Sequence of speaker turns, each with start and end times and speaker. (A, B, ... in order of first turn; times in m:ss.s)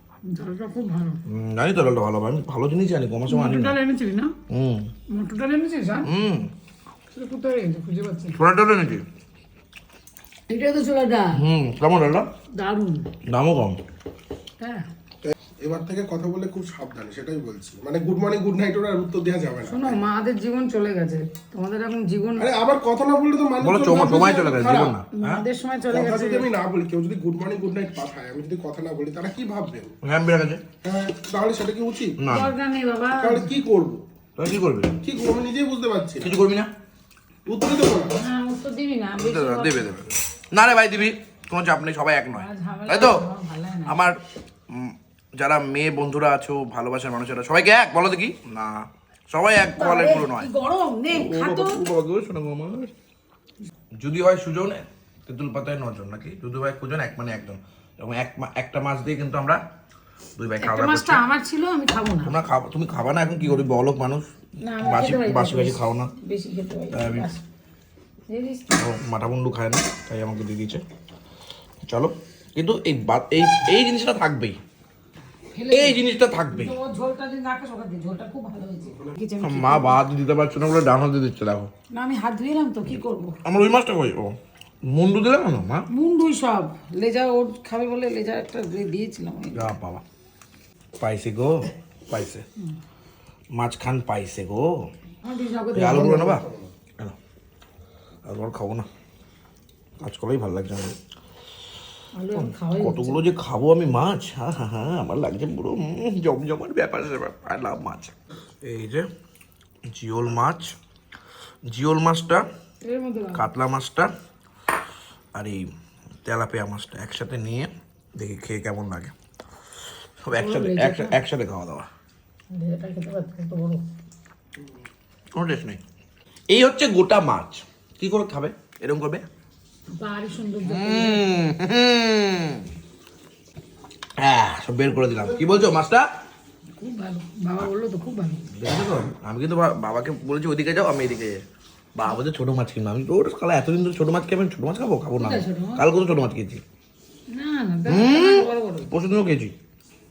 0:00.3-0:01.2 A
0:01.3-0:03.8 B
0:03.3-0:04.3 A
0:04.5-0:04.9 B
0:05.1-0:06.1 A
0:06.0-0:06.5 B
0:07.1-0:08.4 A
0:08.3-0:09.0 B
0:10.5-0:11.4 A
0:11.3-0:12.3 B
0:12.6-0:13.1 A
0:13.3-0:13.8 B
0:14.6-0:14.8 A
0:15.2-0:20.0 C
0:19.6-0:22.5 A
0:22.4-0:25.0 C
0:23.6-0:25.4 B
0:25.1-0:26.5 A
0:25.9-0:29.9 C
0:30.0-0:30.6 B
0:30.8-0:32.2 C
0:32.2-0:32.5 B
0:32.3-0:33.5 A
0:33.2-0:34.0 C
0:34.4-0:35.0 B
0:35.0-0:36.3 C
0:36.2-0:36.7 B
0:37.5-0:38.2 C
0:38.2-0:40.0 A
0:39.2-0:43.2 B
0:42.3-0:44.0 A
0:43.9-0:44.2 B
0:44.7-0:50.5 B
0:49.7-0:51.8 A
0:51.1-0:52.9 B
0:54.0-0:59.6 B
1:00.4-1:01.2 B
1:00.6-1:02.3 A
1:02.2-1:04.3 B
1:04.6-1:07.4 A
1:04.8-1:06.1 B
1:06.9-1:07.3 B
1:08.3-1:08.7 A
1:08.7-1:10.8 B
1:11.8-1:14.6 B
1:15.5-1:20.0 A
1:15.7-1:16.7 B
1:19.4-1:21.7 B
1:21.9-1:23.4 A
1:23.4-1:24.3 B
1:24.9-1:25.8 B
1:25.9-1:29.7 A
1:29.5-1:30.0 B
1:31.0-1:32.4 B
1:33.6-1:34.7 B
1:35.2-1:36.3 A
1:35.7-1:36.4 B
1:35.9-1:36.7 C
1:38.2-1:38.9 B
1:40.0-1:41.0 B
1:42.2-1:43.2 A
1:42.3-1:49.1 B
1:49.9-1:50.8 B
1:51.7-1:52.4 B
1:52.8-1:53.5 A
1:53.3-1:54.1 B
1:55.3-1:55.6 B
1:56.2-1:59.1 B
2:00.2-2:01.9 B
2:00.3-2:01.2 A
2:02.5-2:03.8 A
2:05.3-2:05.8 B
2:06.5-2:09.2 B
2:09.9-2:11.3 A
2:10.6-2:12.6 B
2:14.2-2:16.0 B
2:16.8-2:18.5 A
2:18.5-2:21.4 B
2:21.9-2:26.6 B
2:25.2-2:25.8 A
2:27.3-2:28.9 A
2:27.9-2:29.5 B